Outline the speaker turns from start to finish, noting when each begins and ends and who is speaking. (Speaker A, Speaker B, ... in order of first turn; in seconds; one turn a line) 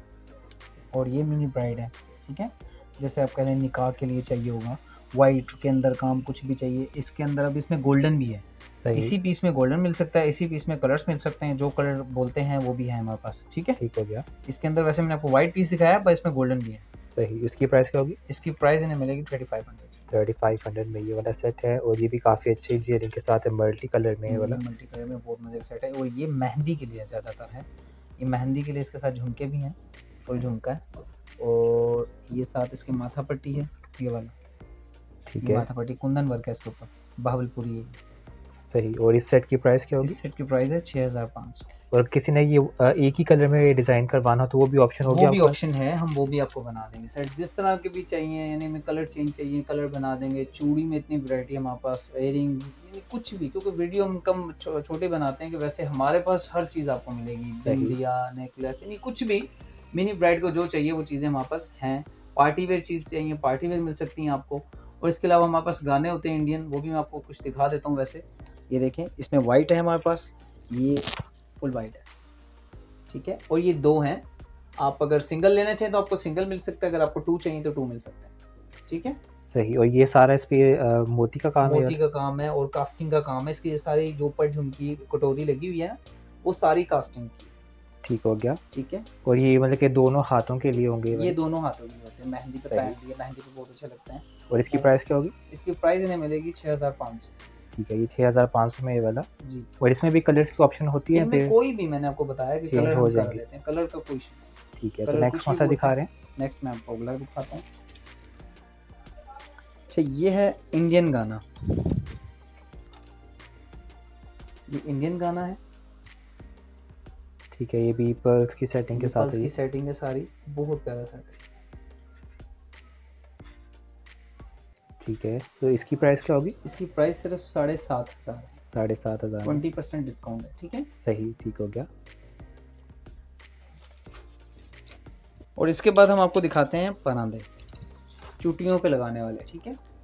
Speaker A: 0.9-13.8
Speaker B: 8.8-9.1
Speaker B: 13.8-14.2
Speaker A: 14.4-16.8
Speaker B: 17.0-18.2
Speaker A: 18.3-19.9
Speaker B: 20.1-24.6
Speaker A: 24.3-27.7
Speaker A: 28.2-30.8
Speaker A: 31.4-34.3
Speaker B: 35.3-35.6
Speaker A: 35.4-38.0
Speaker B: 38.5-40.2
Speaker A: 40.0-41.7
Speaker B: 41.9-45.6
Speaker A: 45.0-72.0
Speaker B: 57.6-58.0
Speaker A: 73.1-74.2
Speaker A: 74.8-78.3
Speaker A: 78.9-79.2
Speaker B: 79.3-82.0
Speaker A: 81.6-87.5
Speaker B: 88.0-88.6
Speaker A: 88.7-89.1
Speaker B: 89.2-91.3
Speaker A: 91.1-94.9
Speaker B: 92.6-93.0
Speaker B: 94.5-95.3
Speaker A: 95.5-97.3
Speaker B: 97.7-99.3
Speaker A: 99.4-99.7
Speaker B: 99.8-101.5
Speaker A: 101.1-104.5
Speaker B: 102.7-103.4
Speaker B: 104.8-106.1
Speaker A: 105.0-107.6
Speaker A: 109.9-112.0
Speaker A: 114.7-115.6
Speaker B: 117.5-119.5
Speaker A: 118.9-121.4
Speaker B: 125.0-126.5
Speaker A: 126.6-128.6
Speaker B: 128.7-129.6
Speaker A: 129.4-130.9
Speaker B: 130.9-131.9
Speaker A: 135.6-137.5
Speaker A: 138.4-139.8